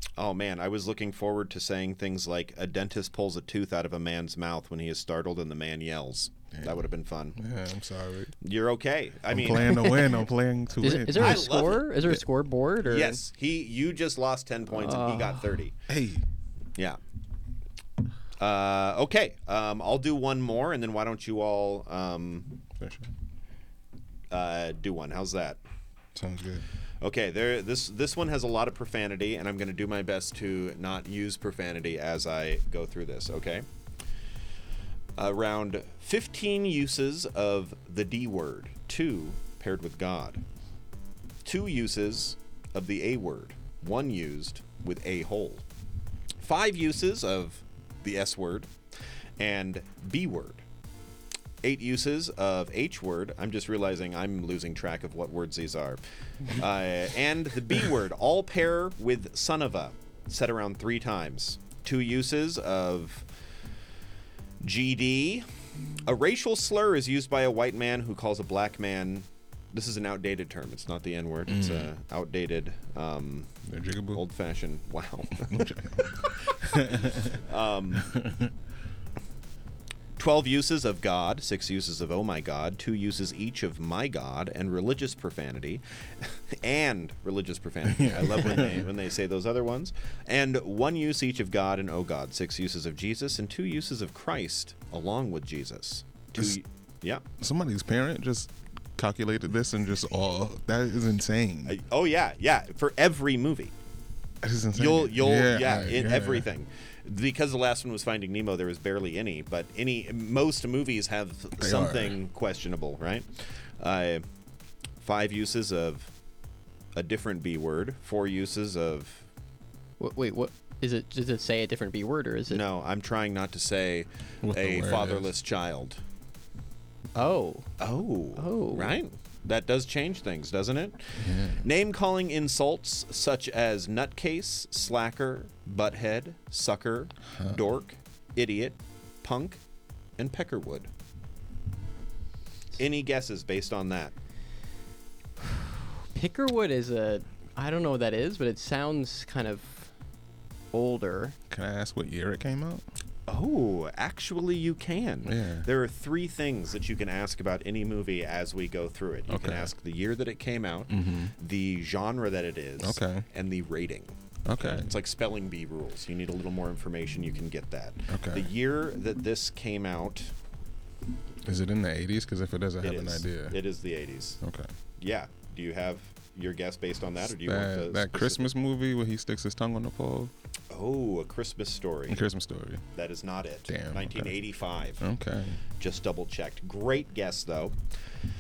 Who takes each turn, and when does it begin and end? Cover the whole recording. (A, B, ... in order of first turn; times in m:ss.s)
0:00.2-0:07.4 A
0:06.5-0:06.8 B
0:07.4-0:08.3 B
0:08.4-0:10.1 A
0:09.3-0:11.7 B
0:10.8-0:13.2 C
0:11.1-0:11.9 A
0:12.8-0:15.8 A
0:14.7-0:15.5 C
0:15.9-0:16.2 B
0:18.4-0:22.6 A
0:22.8-0:23.1 B
0:24.3-0:25.6 A
0:26.2-0:26.7 B
0:27.0-0:33.6 A
0:35.2-0:40.4 A
0:41.4-0:45.6 A
0:46.4-0:48.7 A
0:49.4-0:50.6 A
0:51.6-1:03.3 A
1:04.6-1:05.5 A
1:06.0-1:13.5 A
1:11.5-1:11.9 B
1:13.7-1:14.2 B
1:14.1-1:18.1 A
1:15.5-1:17.4 B
1:18.0-1:18.5 B
1:20.2-1:37.2 A
1:27.8-1:28.9 B
1:37.4-1:41.8 B
1:41.7-1:43.7 A
1:44.4-1:46.5 B
1:44.7-1:54.2 A
1:51.6-1:52.2 B
1:55.0-1:56.1 A
1:57.0-1:59.3 A
2:00.0-2:02.6 C
2:02.5-2:06.0 A
2:04.4-2:05.3 B
2:07.2-2:07.7 C
2:07.8-2:19.6 A
2:08.4-2:09.0 C
2:11.2-2:11.6 B
2:20.2-2:20.9 A
2:22.8-2:24.1 A
2:26.1-2:29.9 C
2:30.7-2:31.4 C
2:31.5-2:32.8 B
2:33.3-2:50.3 A
2:35.2-2:35.7 B
2:39.3-2:39.7 B
2:40.9-2:41.3 B
2:42.8-2:43.3 B
2:44.5-2:44.9 B
2:48.1-2:48.5 B
2:51.4-2:53.6 B
2:52.8-2:54.4 A
2:54.4-2:54.7 B
2:55.0-2:58.5 A
2:57.4-3:00.3 B
3:00.7-3:02.2 A
3:02.1-3:02.8 B
3:03.0-3:05.0 A
3:03.7-3:04.4 B
3:05.0-3:05.6 B
3:05.8-3:07.8 A